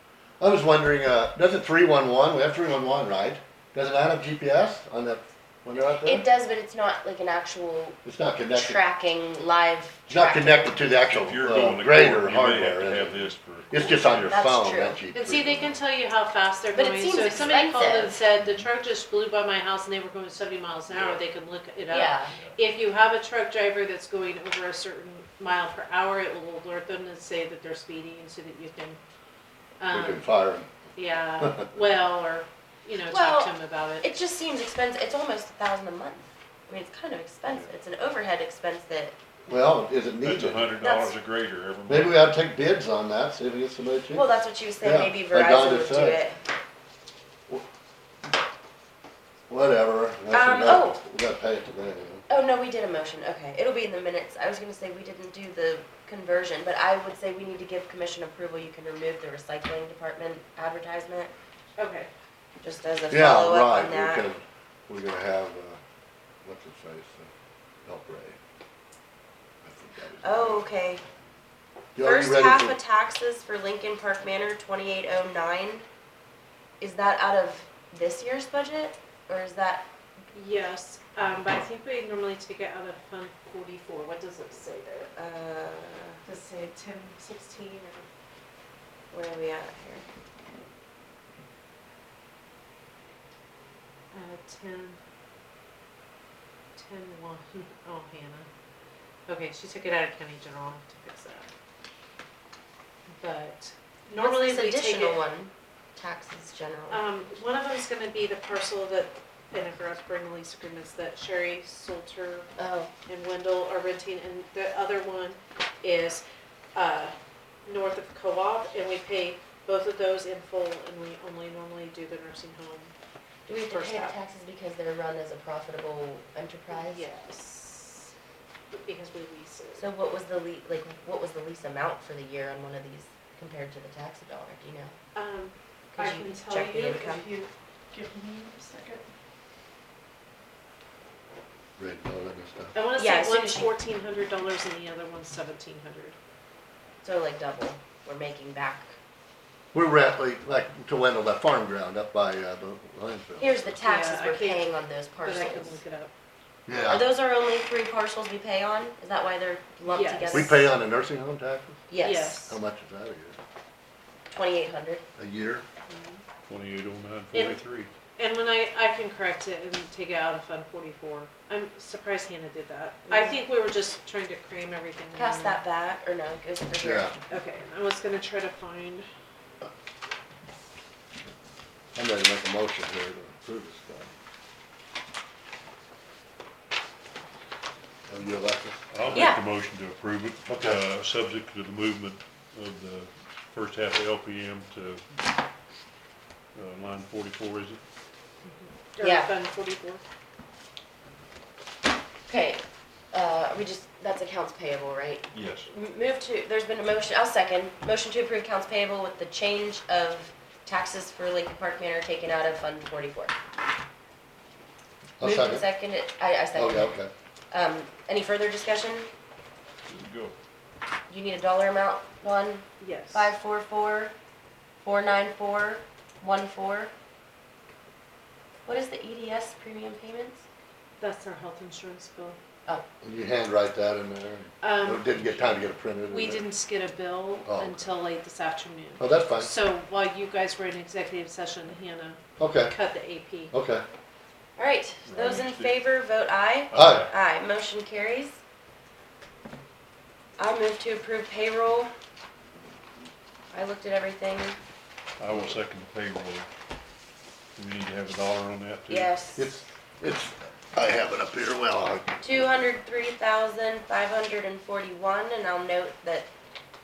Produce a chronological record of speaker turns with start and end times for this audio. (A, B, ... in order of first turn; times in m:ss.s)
0:00.4-0:06.2 A
0:06.0-0:08.0 B
0:08.0-0:08.8 A
0:08.5-0:10.8 B
0:10.1-0:15.8 A
0:11.0-0:14.4 C
0:14.3-0:15.0 B
0:15.1-0:29.0 D
0:16.7-0:18.2 B
0:20.9-0:21.2 C
0:21.9-0:22.3 B
0:29.8-0:30.3 D
0:29.9-0:30.7 A
0:30.9-0:34.1 D
0:31.4-0:31.6 A
0:33.0-0:39.2 B
0:39.5-0:40.7 A
0:40.2-0:42.3 C
0:40.8-0:41.1 B
0:41.9-0:44.2 A
0:44.1-0:46.4 B
0:44.8-0:46.2 A
0:49.5-0:52.2 A
0:50.3-0:51.0 B
0:52.3-1:01.3 B
1:01.8-1:02.1 D
1:02.6-1:04.3 B
1:03.1-1:05.8 A
1:06.4-1:07.3 A
1:07.8-1:08.4 A
1:09.6-1:10.6 A
1:10.2-1:11.0 B
1:11.9-1:12.7 A
1:12.0-1:15.8 B
1:16.8-1:19.9 B
1:20.3-1:25.1 D
1:25.2-1:26.2 B
1:26.2-1:28.1 D
1:29.1-1:30.0 B
1:34.1-1:35.0 D
1:36.8-1:38.5 D
1:39.3-1:41.5 D
1:43.2-1:45.2 D
1:44.2-1:47.0 B
1:46.9-1:52.5 D
1:52.6-1:52.9 B
1:53.1-1:56.2 D
1:56.7-2:02.9 D
2:03.5-2:07.0 B
2:03.6-2:04.2 D
2:06.7-2:08.1 D
2:08.7-2:09.9 D
2:09.8-2:14.9 B
2:15.1-2:19.0 D
2:15.9-2:17.3 B
2:21.8-2:22.7 A
2:22.7-2:26.2 D
2:23.0-2:23.7 B
2:27.0-2:28.9 B
2:29.7-2:33.8 A
2:33.4-2:35.8 B
2:33.8-2:36.1 D
2:36.7-2:37.1 A
2:36.9-2:40.6 B
2:39.8-2:40.6 D
2:40.3-2:41.8 A
2:41.9-2:42.5 B
2:42.0-2:42.6 D
2:42.5-2:43.4 A
2:44.3-2:45.0 B
2:45.2-2:45.6 A
2:45.9-2:46.2 D
2:46.5-2:47.9 C
2:47.3-2:47.6 D
2:48.2-2:55.6 D
2:53.1-2:53.4 B
2:55.1-2:57.2 B
2:56.8-2:57.1 A
2:57.3-2:59.1 D
3:01.9-3:04.1 A
3:08.1-3:09.2 A
3:08.9-3:15.0 C
3:09.1-3:09.4 B
3:10.5-3:10.8 A
3:16.5-3:17.8 C
3:18.4-3:20.0 D
3:19.0-3:19.3 B
3:22.3-3:33.3 B
3:25.3-3:25.7 C
3:35.2-3:35.7 A
3:35.2-3:36.9 B
3:36.5-3:37.1 A
3:37.5-3:39.1 B
3:39.8-3:40.4 C
3:41.1-3:44.1 B
3:42.8-3:43.3 D
3:44.8-3:46.9 B
3:48.6-3:50.4 B
3:51.0-3:52.4 D
3:53.0-3:56.4 A
3:54.6-3:55.2 D
3:55.2-3:55.7 C
3:56.1-4:03.5 D
3:57.4-3:57.9 A
3:59.0-3:59.5 A
4:02.4-4:02.8 A
4:03.5-4:03.8 A
4:04.6-4:08.4 B
4:05.0-4:05.8 C
4:06.7-4:07.1 C
4:06.7-4:07.1 A
4:10.4-4:11.9 B
4:13.5-4:14.6 B
4:15.2-4:16.5 C
4:15.3-4:15.6 A
4:17.6-4:19.1 C
4:18.9-4:19.5 B
4:19.4-4:22.5 A
4:22.2-4:26.3 B